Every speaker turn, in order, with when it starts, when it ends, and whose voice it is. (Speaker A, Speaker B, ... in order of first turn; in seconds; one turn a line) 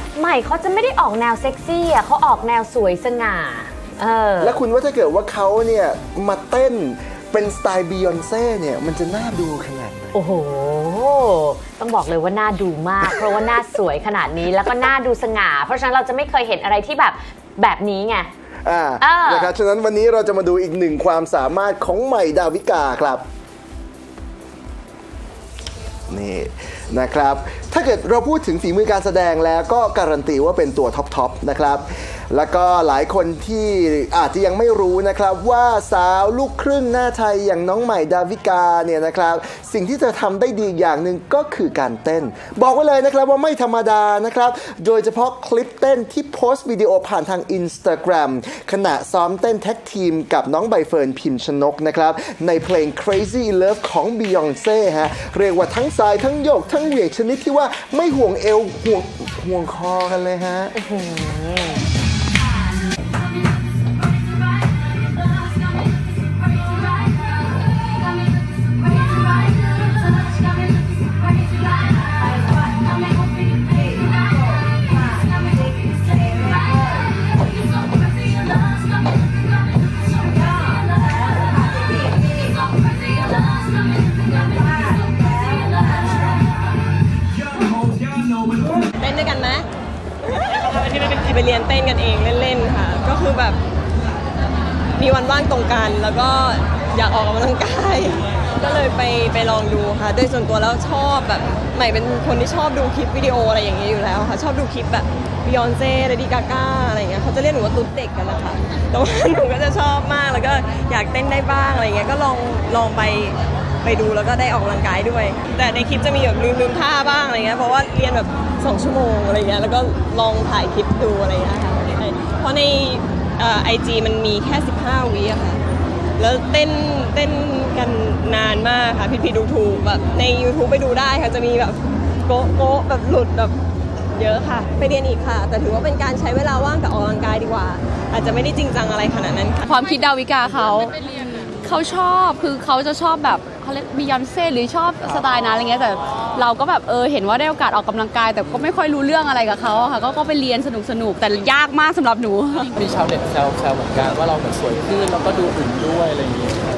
Speaker A: 0.1-4.5
Speaker B: 4.4-10.1
Speaker A: 10.1-18.3
Speaker B: 18.6-23.2
Speaker A: 19.0-19.5
Speaker B: 26.1-60.8
Speaker A: 60.8-61.9
Speaker C: 88.8-89.7
Speaker C: 90.2-93.6
Speaker C: 95.0-125.6
Speaker C: 126.2-133.6
Speaker C: 134.1-139.7
Speaker D: 139.7-140.9
Speaker D: 141.6-152.7
Speaker E: 152.7-156.6